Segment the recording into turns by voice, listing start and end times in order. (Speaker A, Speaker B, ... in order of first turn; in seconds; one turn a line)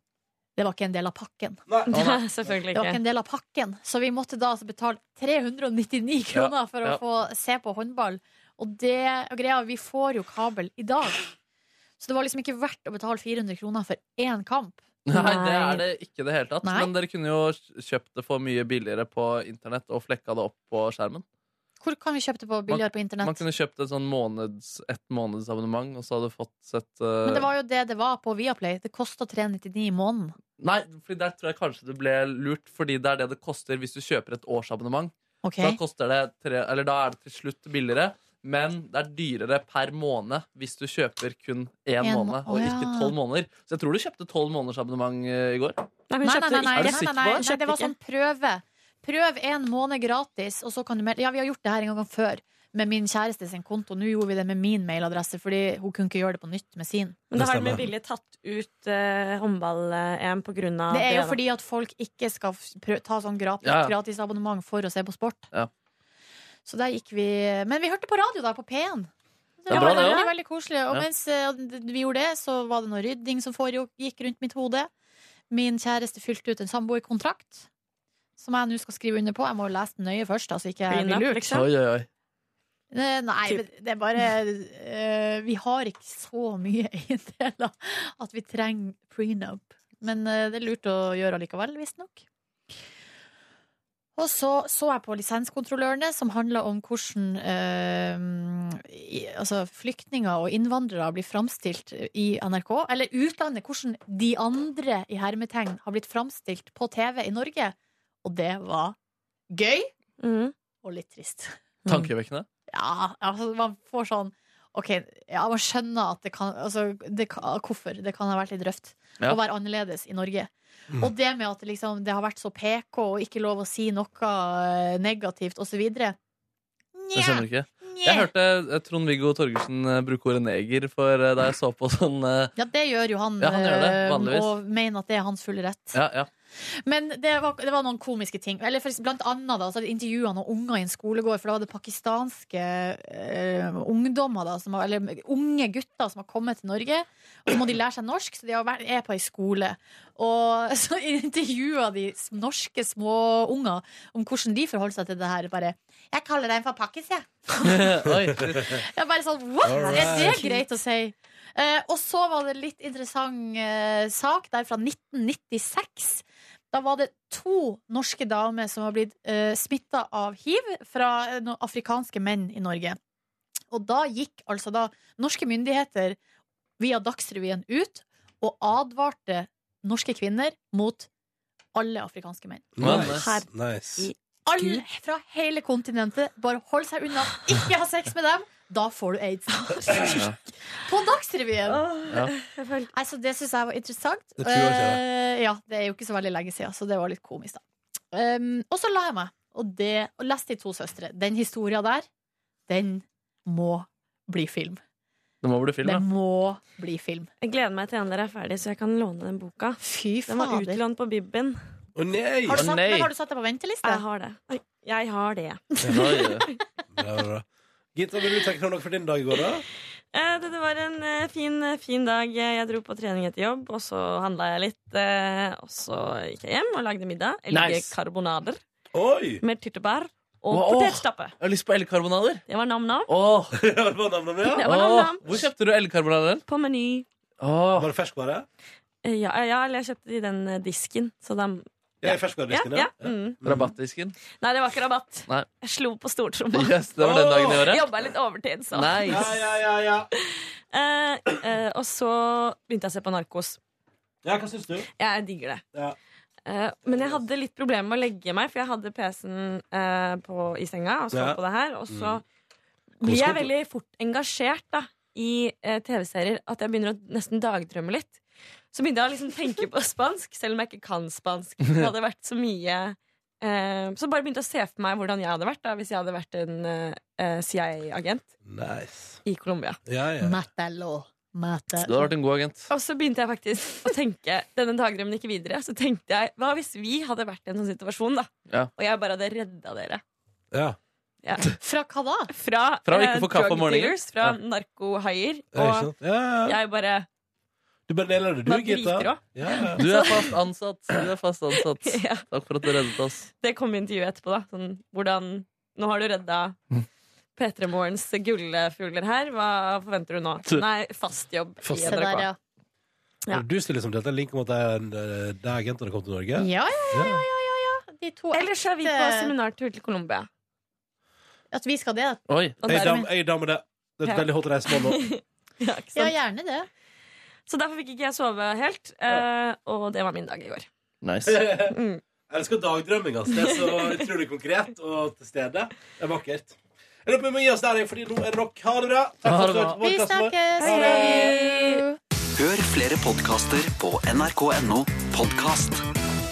Speaker A: 0.6-1.6
Speaker B: 1.9-3.0
Speaker C: 1.9-2.2
Speaker A: 2.7-11.2
Speaker C: 6.3-7.0
Speaker A: 12.0-15.8
Speaker C: 15.1-21.2
Speaker A: 16.6-16.9
Speaker A: 21.8-23.4
Speaker C: 22.7-27.5
Speaker A: 27.2-30.3
Speaker C: 30.6-45.8
Speaker A: 35.4-35.8
Speaker A: 42.0-43.1
Speaker B: 46.1-47.9
Speaker A: 46.2-57.2
Speaker C: 46.7-47.4
Speaker B: 57.3-61.4
Speaker D: 57.3-57.9
Speaker A: 60.9-65.5
Speaker C: 63.6-63.9
Speaker A: 66.7-69.1
Speaker A: 69.6-74.9
Speaker C: 69.7-70.3
Speaker B: 69.7-70.3
Speaker A: 75.5-77.7
Speaker A: 78.4-81.5
Speaker B: 80.9-81.7
Speaker C: 81.5-82.1
Speaker A: 82.9-92.2
Speaker A: 94.2-109.0
Speaker A: 109.5-109.9
Speaker B: 110.2-110.5
Speaker A: 110.8-112.0
Speaker C: 111.9-112.5
Speaker A: 112.7-126.2
Speaker A: 127.0-128.3
Speaker C: 127.1-132.5
Speaker A: 132.6-136.0
Speaker C: 133.4-134.5
Speaker C: 135.9-136.3
Speaker A: 136.6-157.8
Speaker C: 157.6-158.7
Speaker D: 158.5-158.8
Speaker A: 158.6-173.0
Speaker D: 159.7-160.4
Speaker B: 159.7-160.6
Speaker A: 173.7-176.2
Speaker A: 176.8-181.1
Speaker A: 181.7-182.8
Speaker D: 182.8-184.1
Speaker C: 182.8-183.3
Speaker B: 182.9-184.8
Speaker A: 184.4-190.2
Speaker A: 190.8-191.8
Speaker B: 191.8-192.9
Speaker A: 192.9-202.1
Speaker D: 194.4-195.0
Speaker A: 202.7-204.8
Speaker C: 205.4-206.0
Speaker A: 205.8-207.3
Speaker B: 207.4-211.6
Speaker A: 209.8-210.8
Speaker D: 211.9-212.6
Speaker A: 212.5-214.0
Speaker C: 212.5-213.1
Speaker B: 213.8-216.4
Speaker C: 215.9-216.5
Speaker D: 216.9-219.6
Speaker B: 220.1-228.6
Speaker C: 227.5-227.9
Speaker D: 228.9-229.4
Speaker B: 229.4-231.3
Speaker C: 230.5-232.4
Speaker B: 232.5-233.1
Speaker C: 233.1-233.6
Speaker D: 233.5-234.7
Speaker B: 234.4-235.2
Speaker C: 234.6-236.4
Speaker D: 235.2-235.5
Speaker B: 236.5-237.1
Speaker C: 237.4-237.9
Speaker D: 237.8-238.4
Speaker B: 239.0-243.4
Speaker D: 242.0-243.7
Speaker C: 243.4-244.2
Speaker B: 244.3-246.8
Speaker C: 246.5-247.9
Speaker D: 247.0-247.6
Speaker B: 247.5-249.5
Speaker C: 248.7-249.4
Speaker D: 249.1-250.1
Speaker B: 250.1-253.6
Speaker D: 254.2-254.9
Speaker B: 255.0-255.6
Speaker B: 256.4-262.2
Speaker D: 256.9-257.2
Speaker D: 261.1-262.2
Speaker B: 263.0-268.2
Speaker D: 263.0-263.5
Speaker B: 268.7-278.3
Speaker D: 278.4-279.2
Speaker B: 279.2-279.8
Speaker D: 279.9-280.4
Speaker A: 280.2-282.1
Speaker C: 281.8-282.7
Speaker B: 282.7-290.0
Speaker D: 290.5-290.8
Speaker B: 291.2-291.5
Speaker A: 291.6-292.3
Speaker B: 292.3-295.9
Speaker C: 292.9-294.4
Speaker D: 295.5-296.6
Speaker B: 296.4-297.1
Speaker D: 297.9-299.8
Speaker B: 298.4-300.4
Speaker C: 299.8-303.3
Speaker B: 301.5-306.6
Speaker B: 307.4-312.3
Speaker D: 311.6-312.0
Speaker A: 311.7-312.4
Speaker D: 313.3-317.2
Speaker A: 316.4-319.3
Speaker B: 318.3-320.3
Speaker A: 321.5-323.1
Speaker C: 322.3-322.6
Speaker B: 322.6-323.1
Speaker D: 322.7-325.1
Speaker B: 324.0-326.1
Speaker A: 325.9-326.7
Speaker B: 327.5-330.7
Speaker C: 331.0-331.4
Speaker D: 331.2-331.8
Speaker B: 331.7-332.0
Speaker D: 332.3-341.2
Speaker B: 333.3-334.1
Speaker C: 339.2-339.8
Speaker A: 339.8-341.9
Speaker B: 340.6-341.8
Speaker E: 342.4-345.8